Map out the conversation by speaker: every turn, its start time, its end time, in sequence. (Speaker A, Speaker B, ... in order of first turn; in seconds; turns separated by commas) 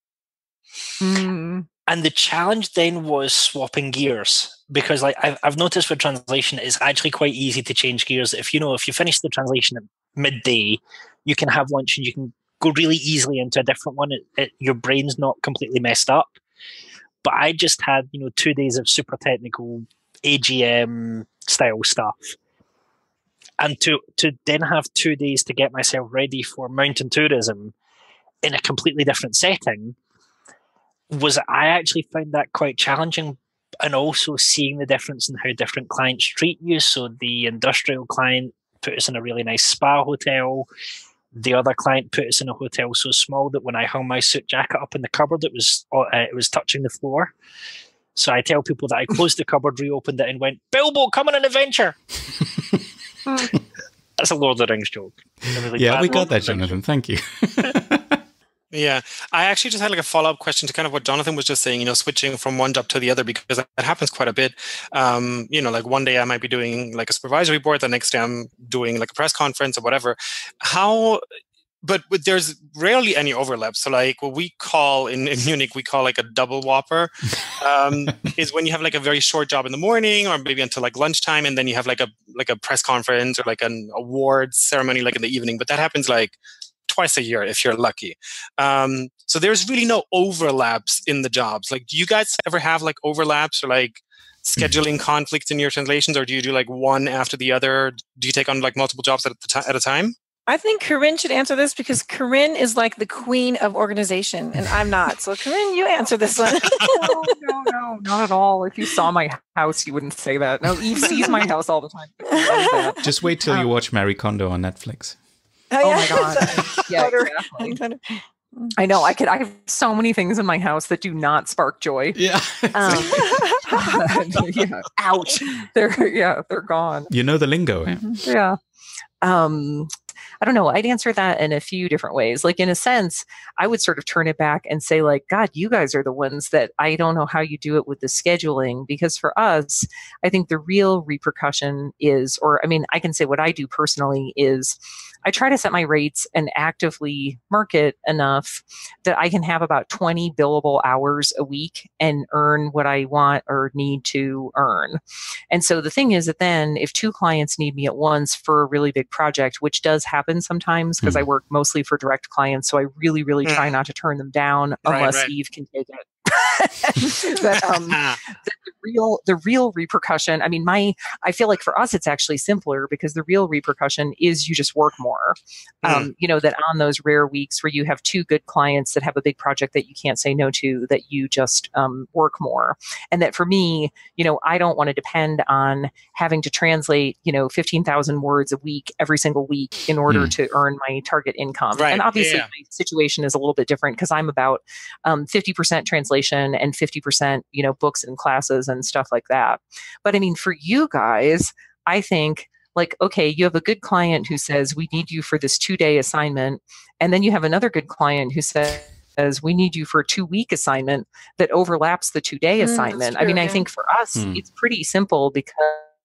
Speaker A: 1.0-1.7, Speaker B: 1.9-16.4, Speaker B: 17.2-22.4, Speaker B: 23.6-27.7, Speaker B: 28.4-30.0, Speaker B: 31.1-40.7, Speaker B: 41.3-47.3, Speaker B: 48.1-52.0, Speaker B: 54.2-56.8, Speaker C: 55.5-58.2, Speaker D: 58.7-71.2, Speaker D: 71.8-100.1, Speaker E: 100.5-107.3, Speaker A: 106.9-113.7, Speaker C: 113.0-115.2, Speaker E: 115.7-118.7, Speaker A: 115.8-117.8, Speaker A: 118.8-122.2, Speaker C: 122.2-123.5, Speaker A: 122.7-127.1, Speaker E: 123.1-123.8, Speaker C: 127.1-128.2, Speaker A: 128.2-128.6, Speaker A: 129.2-215.9, Speaker C: 161.0-161.3, Speaker D: 163.5-163.7, Speaker D: 164.8-165.3, Speaker D: 167.9-168.2, Speaker D: 175.8-176.1, Speaker C: 190.1-190.3, Speaker D: 191.7-192.5, Speaker E: 212.6-213.7, Speaker C: 214.2-214.4